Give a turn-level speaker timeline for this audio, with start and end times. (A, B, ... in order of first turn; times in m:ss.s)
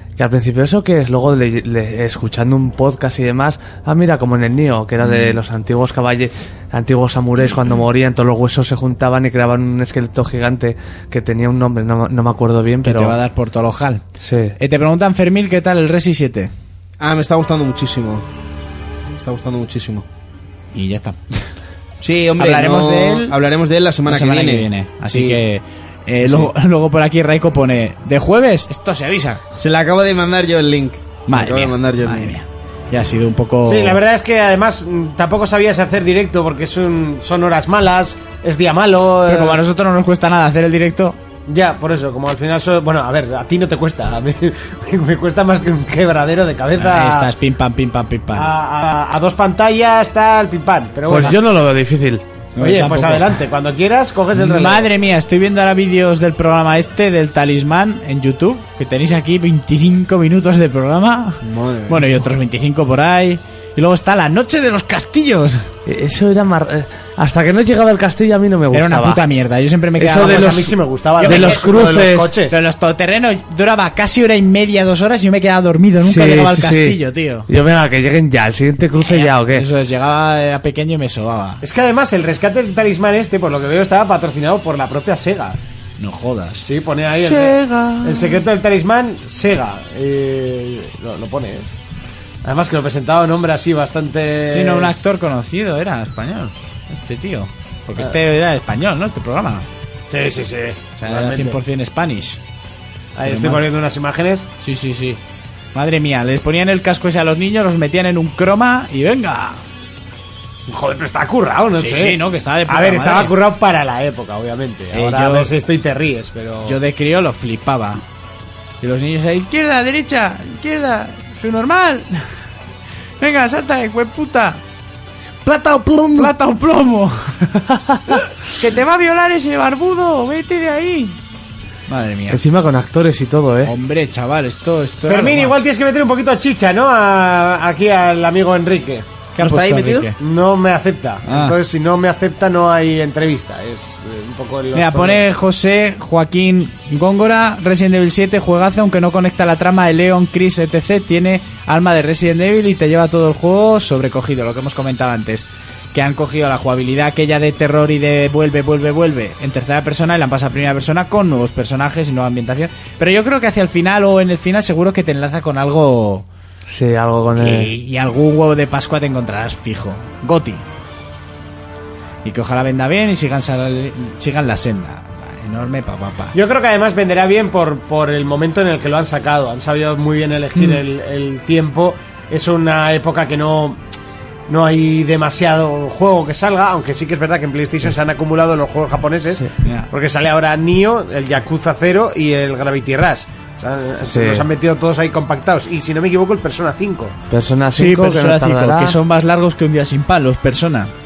0:00.2-0:13.2 A
0:05.0-0:05.4 B
0:12.8-0:14.0 B
0:14.2-0:14.6 A
0:14.6-0:16.5 B
0:17.0-0:18.2 C
0:19.2-0:20.0 C
0:20.7-0:21.4 B
0:22.0-0:25.4 C
0:22.4-0:23.3 B
0:24.1-0:29.4 B
0:26.2-0:26.5 C
0:29.6-0:32.3 C
0:31.3-0:34.0 B
0:33.6-0:39.6 D
0:39.3-0:41.2 B
0:41.5-0:47.3 D
0:46.8-0:48.5 B
0:48.3-0:51.4 D
0:51.1-0:52.2 A
0:52.6-0:53.3 B
0:52.6-0:54.9 D
0:54.3-1:05.6 B
1:01.4-1:02.1 C
1:05.9-1:09.2 A
1:08.7-1:11.7 B
1:10.0-1:12.3 A
1:10.0-1:12.6 D
1:12.5-1:17.5 B
1:16.0-1:19.7 A
1:19.0-1:21.6 B
1:21.6-1:25.6 D
1:26.0-1:26.7 B
1:26.6-1:31.7 D
1:27.2-1:28.4 B
1:32.4-1:34.9 D
1:34.5-1:39.6 B
1:40.1-1:41.6 D
1:41.0-1:42.4 B
1:43.2-1:44.5 D
1:43.2-1:43.7 B
1:44.6-1:45.2 B
1:45.7-1:49.6 B
1:50.7-1:56.8 D
1:51.8-1:53.4 B
1:54.9-1:55.5 B
1:56.6-1:58.0 B
1:58.8-2:02.3 B
2:03.2-2:04.6 B
2:05.5-2:11.2 B
2:11.9-2:12.4 B
2:12.3-2:13.7 A
2:13.6-2:15.6 B
2:15.0-2:19.0 D
2:19.3-2:20.2 B
2:19.4-2:20.1 C
2:20.2-2:25.3 D
2:21.2-2:21.6 B
2:24.7-2:46.3 B
2:46.7-2:47.7 A
2:47.4-2:50.6 B
2:52.2-2:56.3 B
2:56.3-3:03.8 D
3:04.5-3:17.2 D
3:09.6-3:09.9 B
3:14.0-3:14.4 A
3:17.3-3:19.0 A
3:17.7-3:20.9 B